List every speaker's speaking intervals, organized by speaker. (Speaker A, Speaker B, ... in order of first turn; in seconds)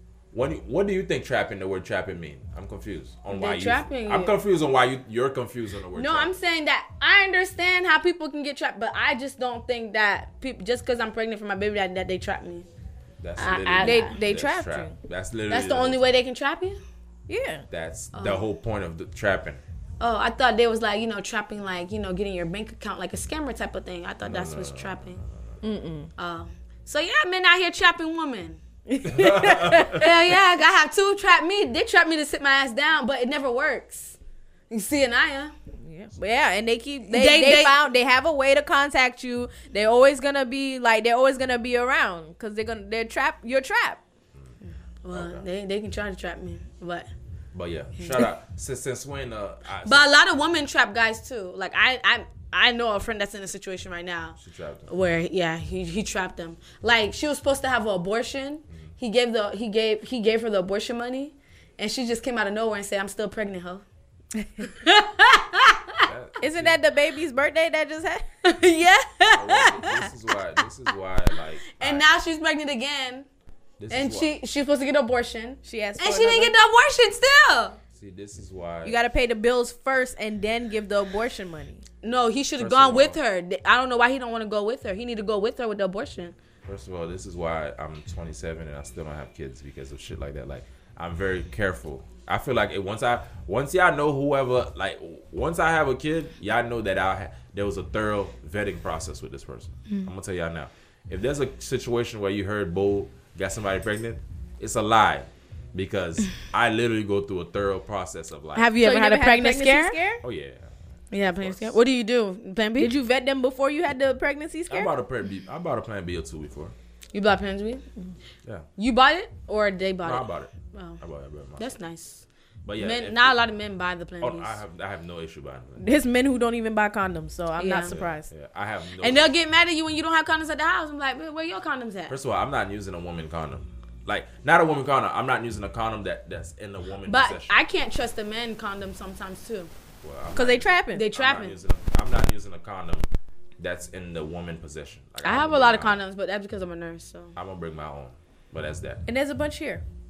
Speaker A: 0.3-6.4, 13.2-16.1, 17.7-19.6, 24.2-25.6, 29.0-30.1, 45.1-45.5, 47.5-50.1, 54.4-54.9, 66.1-66.8, 69.2-72.1, 73.8-74.3, 78.0-79.0, 82.6-83.2, 86.7-108.7, 110.2-111.8, 114.7-116.7, 120.0-121.8, 122.7-123.4, 124.2-125.9, 127.8-129.3, 132.1-137.6, 140.0-143.1, 143.6-146.0, 147.4-149.0
Speaker B: 3.3-4.4, 6.0-12.7, 13.4-14.2, 15.5-16.8, 18.1-18.4, 20.0-25.2, 26.2-34.2, 34.7-35.5, 37.1-37.8, 44.6-47.1, 48.0-48.3, 49.9-54.4, 54.9-63.8, 64.6-66.1, 68.4-70.1, 71.8-73.3, 73.9-77.8, 82.0-86.3, 108.5-110.0, 111.1-112.9, 117.1-117.8, 118.8-121.0, 121.6-122.2, 122.8-124.6, 127.6-128.0, 129.0-132.2, 137.1-139.7, 140.9-141.6, 145.2-147.4
Speaker C: 13.8-15.0, 17.3-17.7, 25.6-26.1, 28.9-30.1, 35.8-44.0, 66.4-68.2, 75.7-76.5, 78.8-81.8, 108.8-110.2, 112.8-114.9, 125.8-128.3, 140.3-141.1, 149.1-149.8